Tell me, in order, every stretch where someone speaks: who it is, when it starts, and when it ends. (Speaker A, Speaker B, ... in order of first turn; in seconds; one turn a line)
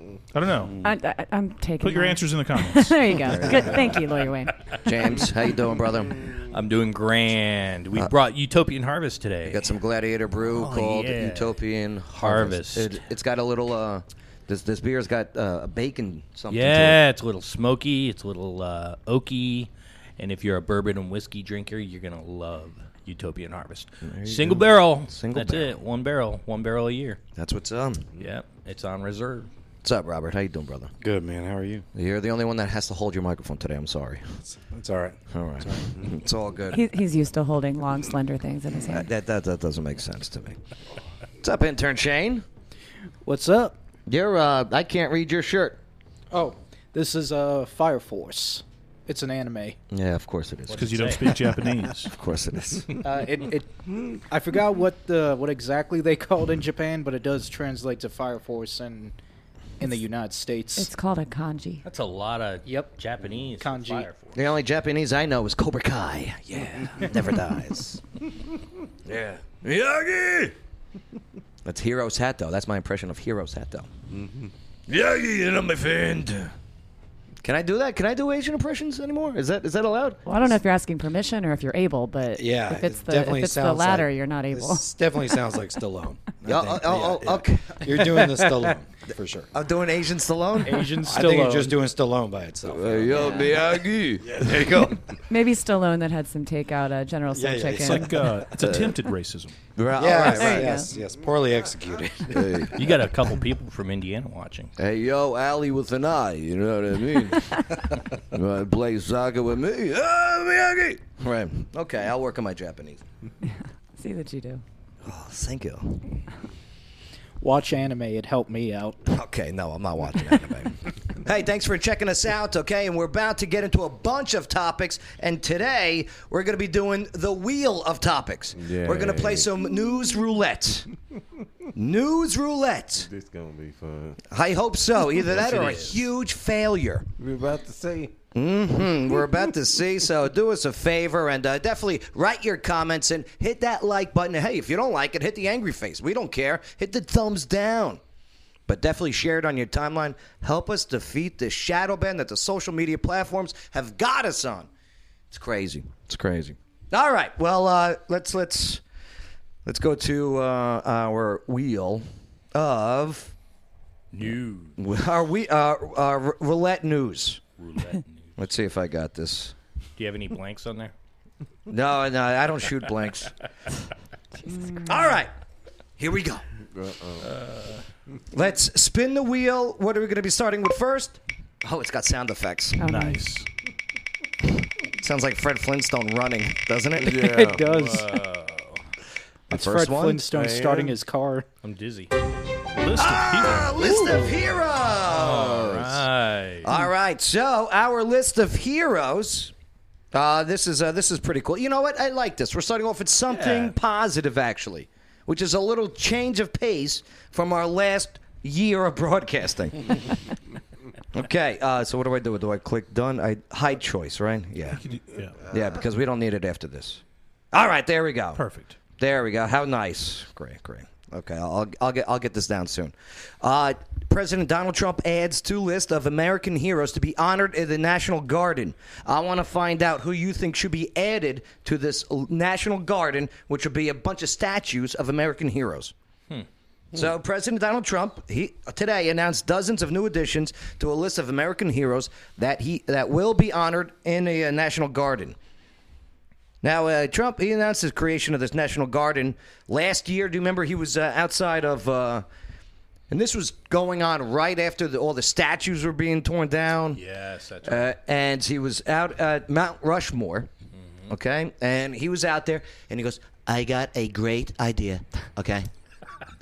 Speaker A: 0.3-0.8
Speaker B: 0.8-5.3
Speaker A: 1.8-3.0
Speaker C: 3.3-4.0
Speaker C: 4.8-6.2
Speaker D: 6.5-9.7
Speaker C: 9.4-17.0
Speaker D: 10.4-11.6
Speaker D: 12.2-13.0
Speaker D: 16.5-27.2
Speaker C: 24.0-25.7
Speaker C: 27.4-28.0
Speaker D: 28.2-29.5
Speaker C: 29.8-30.9
Speaker E: 31.0-31.8
Speaker C: 31.9-34.2
Speaker E: 34.5-35.9
Speaker C: 35.3-36.8
Speaker B: 36.7-39.1
Speaker C: 38.9-40.6
Speaker C: 41.4-42.4
Speaker F: 43.2-43.7
Speaker C: 44.1-45.8
Speaker F: 46.3-49.8
Speaker C: 49.9-51.1
Speaker D: 50.7-51.4
Speaker A: 50.8-52.1
Speaker C: 52.1-52.9
Speaker F: 53.0-59.1
Speaker F: 59.8-60.9
Speaker B: 60.8-61.8
Speaker D: 61.8-64.4
Speaker F: 62.6-62.9
Speaker F: 63.6-64.1
Speaker C: 64.3-68.0
Speaker C: 69.0-70.5
Speaker C: 71.6-73.9
Speaker G: 74.1-74.5
Speaker C: 74.9-76.5
Speaker C: 77.4-80.2
Speaker B: 80.2-84.8
Speaker E: 82.3-89.5
Speaker C: 86.4-87.8
Speaker F: 88.2-88.7
Speaker C: 89.5-90.9
Speaker F: 90.6-91.8
Speaker E: 91.0-93.6
Speaker C: 92.6-94.9
Speaker E: 94.3-94.9
Speaker B: 95.3-98.1
Speaker E: 97.3-98.4
Speaker A: 97.8-99.5
Speaker C: 98.6-98.9
Speaker C: 99.8-100.8
Speaker E: 99.9-102.8
Speaker B: 100.1-100.9
Speaker C: 102.3-102.8
Speaker D: 102.7-104.7
Speaker C: 104.8-113.0
Speaker B: 113.4-114.6
Speaker C: 115.0-116.0
Speaker F: 117.4-119.0
Speaker C: 119.1-130.9
Speaker G: 128.6-129.5
Speaker C: 131.7-133.1
Speaker G: 133.0-134.2
Speaker C: 134.3-137.1
Speaker D: 135.3-136.0
Speaker G: 135.6-135.9
Speaker G: 137.2-138.1
Speaker C: 138.3-148.0
Speaker C: 148.7-154.7
Speaker C: 155.3-158.8
Speaker C: 159.7-163.3
Speaker D: 164.1-164.8
Speaker C: 164.8-167.4
Speaker D: 167.6-168.4
Speaker C: 168.4-169.5
Speaker D: 170.0-170.9
Speaker C: 171.7-173.3
Speaker C: 174.8-175.3
Speaker C: 176.0-176.4
Speaker G: 176.7-177.3
Speaker D: 177.2-177.8
Speaker C: 178.3-182.8
Speaker B: 182.8-183.2
Speaker A: 182.8-183.5
Speaker C: 184.6-187.3
Speaker G: 187.0-188.1
Speaker F: 187.3-188.0
Speaker D: 187.7-188.8
Speaker C: 189.5-190.3
Speaker F: 189.5-191.4
Speaker G: 190.3-190.9
Speaker D: 191.6-192.1
Speaker A: 192.7-193.9
Speaker C: 192.9-196.0
Speaker D: 195.0-196.8
Speaker C: 196.6-199.5
Speaker C: 200.1-210.1
Speaker D: 203.3-203.7
Speaker C: 211.1-214.8
Speaker A: 214.7-215.4
Speaker C: 215.5-217.0
Speaker C: 217.5-218.4
Speaker A: 218.3-218.8
Speaker C: 219.0-235.9
Speaker C: 236.9-245.3
Speaker C: 246.6-252.2
Speaker C: 253.1-257.0
Speaker D: 256.9-257.9
Speaker C: 257.6-260.5
Speaker C: 261.1-265.7